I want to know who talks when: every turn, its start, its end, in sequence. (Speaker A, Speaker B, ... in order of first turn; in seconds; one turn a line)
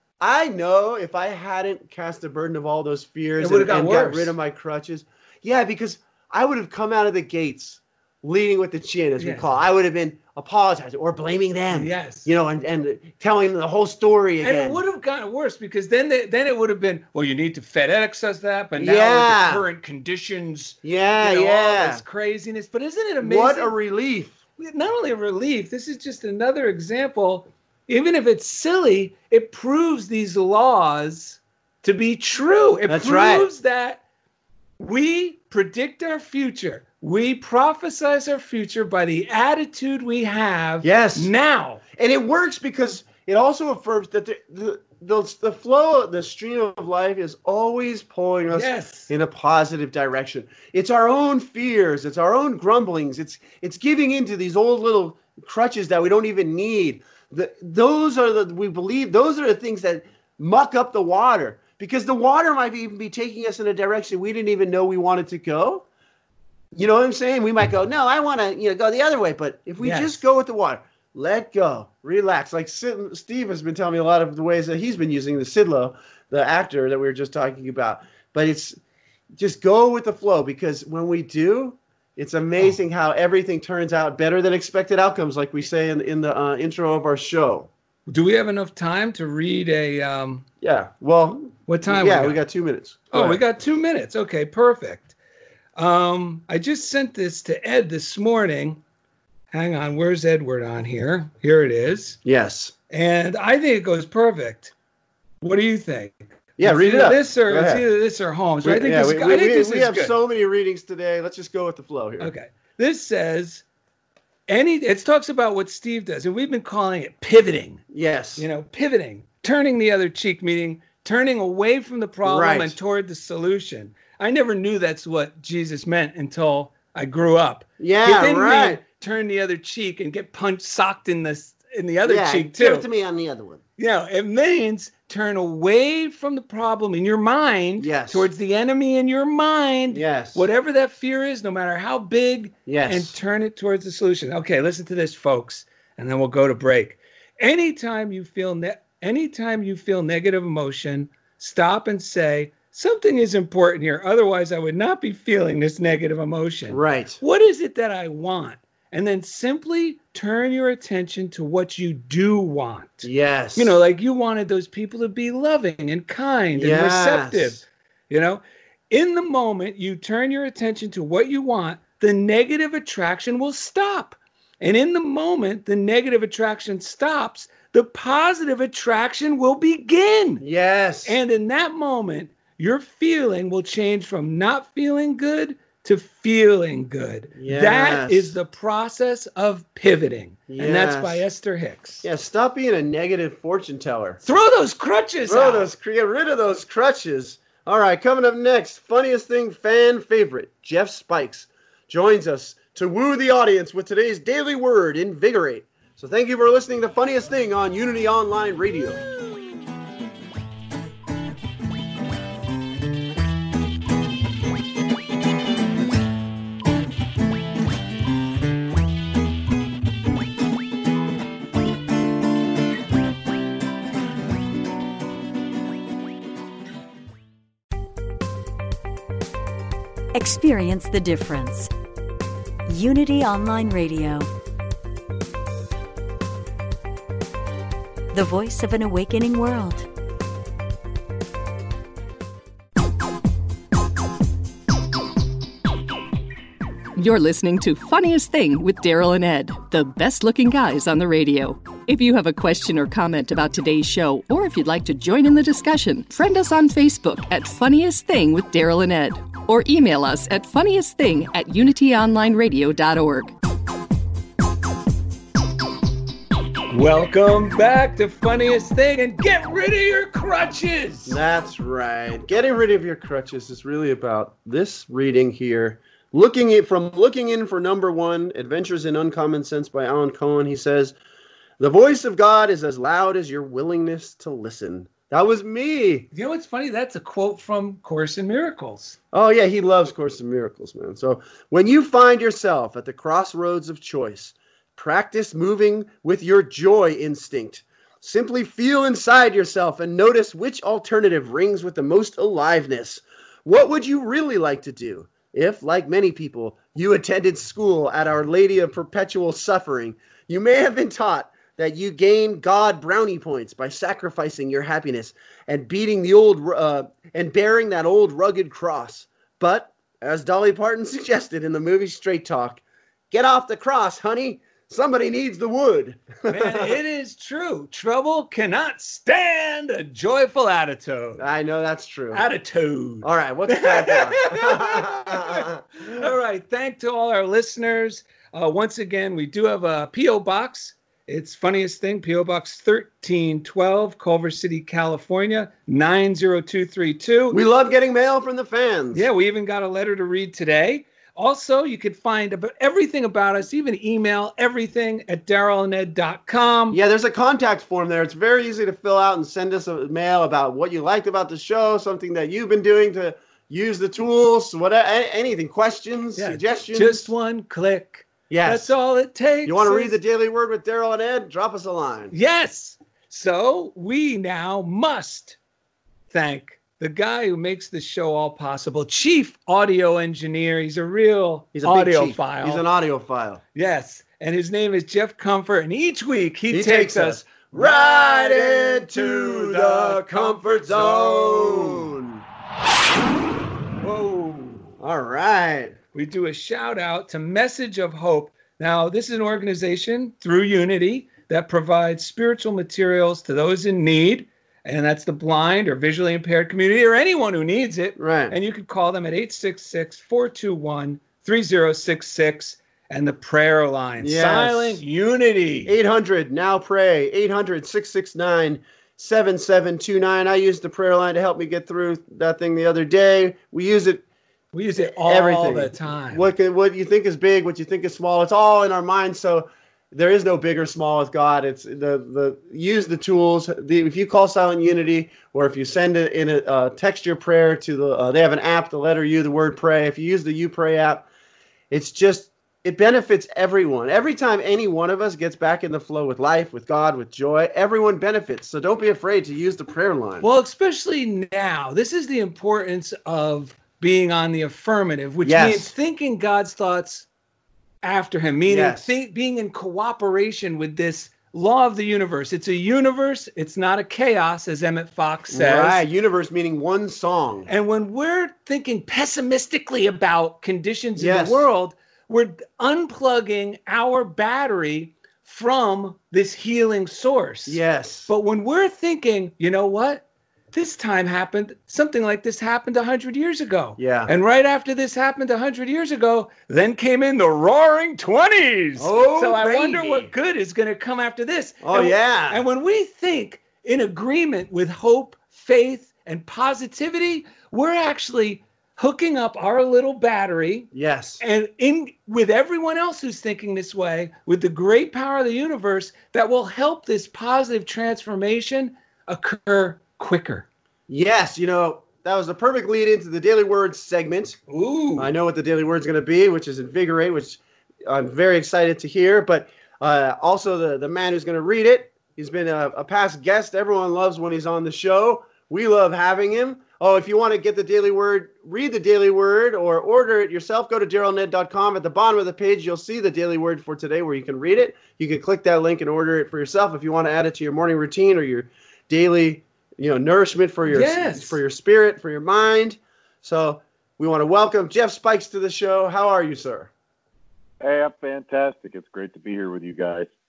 Speaker A: 0.2-14.8
Speaker B: 3.4-4.3
Speaker B: 9.2-9.4
Speaker B: 11.7-12.3
Speaker B: 14.4-23.7
Speaker A: 18.8-19.6
Speaker A: 20.8-22.0
Speaker A: 23.2-24.4
Speaker B: 24.6-34.0
Speaker A: 32.9-33.5
Speaker B: 34.8-41.8
Speaker A: 40.8-41.3
Speaker A: 41.9-65.8
Speaker B: 48.5-49.1
Speaker A: 66.7-78.8
Speaker B: 69.8-70.2
Speaker A: 79.4-87.7
Speaker B: 88.1-90.5
Speaker A: 90.6-93.4
Speaker B: 91.7-92.4
Speaker B: 93.1-95.2
Speaker B: 95.8-98.8
Speaker B: 99.5-102.2
Speaker A: 102.2-102.7
Speaker B: 102.9-104.7
Speaker B: 105.4-110.1
Speaker A: 106.6-107.9
Speaker A: 108.6-112.3
Speaker B: 112.2-113.6
Speaker B: 114.5-117.8
Speaker A: 117.9-118.5
Speaker B: 118.4-132.9
Speaker A: 122.2-122.8
Speaker A: 127.8-128.8
Speaker A: 132.1-133.6
Speaker B: 133.8-180.4
Speaker A: 137.8-138.3
Speaker A: 139.9-140.5
Speaker A: 142.7-143.2
Speaker A: 156.7-157.2
Speaker A: 163.0-163.8
Speaker A: 166.6-167.6
Speaker A: 180.4-181.2
Speaker B: 181.1-192.0
Speaker A: 187.4-188.4
Speaker A: 190.5-191.2
Speaker A: 192.0-194.2
Speaker B: 194.2-195.7
Speaker A: 195.3-209.0
Speaker C: 230.1-231.7
Speaker C: 232.7-234.3
Speaker C: 238.1-239.9
Speaker D: 247.0-263.3
Speaker B: 266.7-271.2
Speaker A: 271.1-281.0
Speaker A: 281.6-286.1
Speaker B: 286.1-289.0
Speaker A: 289.1-326.8
Speaker B: 326.3-331.2
Speaker A: 331.2-332.2
Speaker B: 332.1-347.4
Speaker A: 333.0-335.6
Speaker A: 347.3-349.1
Speaker B: 348.9-356.8
Speaker A: 356.7-367.1
Speaker B: 366.2-370.0
Speaker A: 368.3-368.7
Speaker A: 369.4-372.1
Speaker B: 372.1-375.4
Speaker B: 376.1-382.6
Speaker A: 381.6-383.4
Speaker B: 383.6-391.9
Speaker A: 386.5-392.2
Speaker B: 393.8-394.7
Speaker A: 394.8-395.8
Speaker B: 395.9-415.7
Speaker A: 408.0-408.4
Speaker A: 414.0-414.8
Speaker A: 415.6-424.0
Speaker B: 424.5-426.3
Speaker A: 424.9-441.1
Speaker A: 441.7-450.2
Speaker B: 450.2-457.1
Speaker A: 455.2-455.7
Speaker B: 457.8-465.8
Speaker A: 458.5-458.9
Speaker A: 465.3-467.5
Speaker B: 467.5-500.7
Speaker A: 471.0-471.5
Speaker A: 477.5-478.1
Speaker A: 483.8-484.1
Speaker A: 488.8-490.1
Speaker A: 491.6-492.4
Speaker A: 500.7-501.2
Speaker B: 501.2-510.5
Speaker A: 510.9-514.4
Speaker B: 514.5-515.1
Speaker A: 515.0-546.7
Speaker B: 540.7-541.4
Speaker E: 547.6-550.1